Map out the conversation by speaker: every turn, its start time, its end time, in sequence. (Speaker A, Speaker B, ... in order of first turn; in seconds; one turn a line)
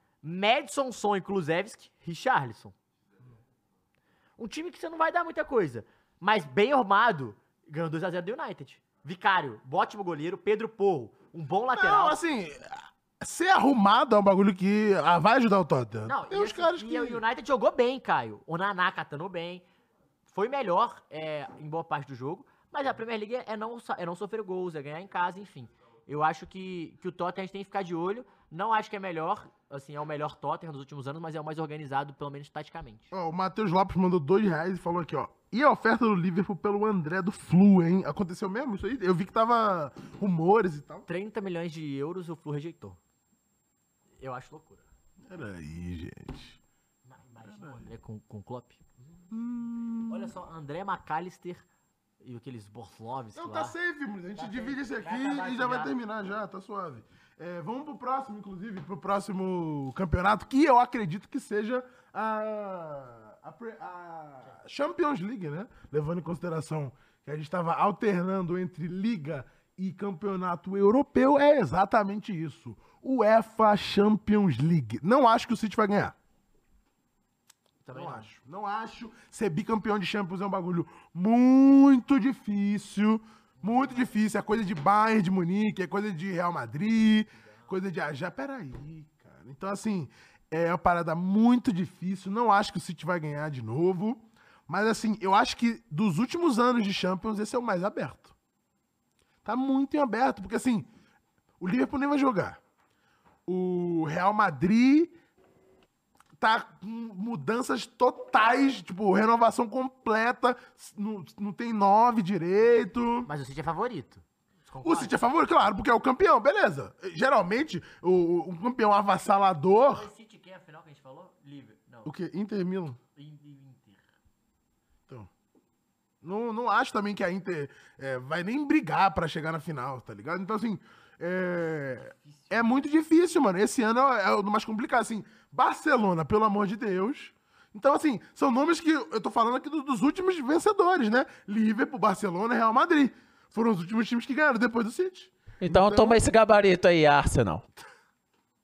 Speaker A: 0.2-2.7
Speaker A: 4.4-12.2
Speaker B: 11.7-17.2
Speaker A: 16.1-19.6
Speaker A: 20.3-33.1
Speaker B: 33.1-41.1
Speaker A: 41.1-43.0
Speaker A: 44.2-44.9
Speaker B: 45.2-46.6
Speaker A: 47.0-48.8
Speaker B: 47.4-47.9
Speaker B: 49.3-50.3
Speaker A: 50.1-51.6
Speaker A: 52.2-53.7
Speaker B: 53.3-76.2
Speaker A: 54.3-55.9
Speaker A: 77.8-78.3
Speaker B: 77.9-98.3
Speaker A: 83.6-84.0
Speaker A: 87.4-87.7
Speaker B: 99.4-100.9
Speaker B: 101.6-102.6
Speaker B: 103.5-105.1
Speaker B: 106.4-113.3
Speaker A: 113.2-115.2
Speaker B: 114.8-120.1
Speaker A: 119.9-122.1
Speaker B: 122.0-123.0
Speaker A: 123.2-124.0
Speaker B: 126.2-146.2
Speaker A: 132.2-132.9
Speaker C: 145.6-147.6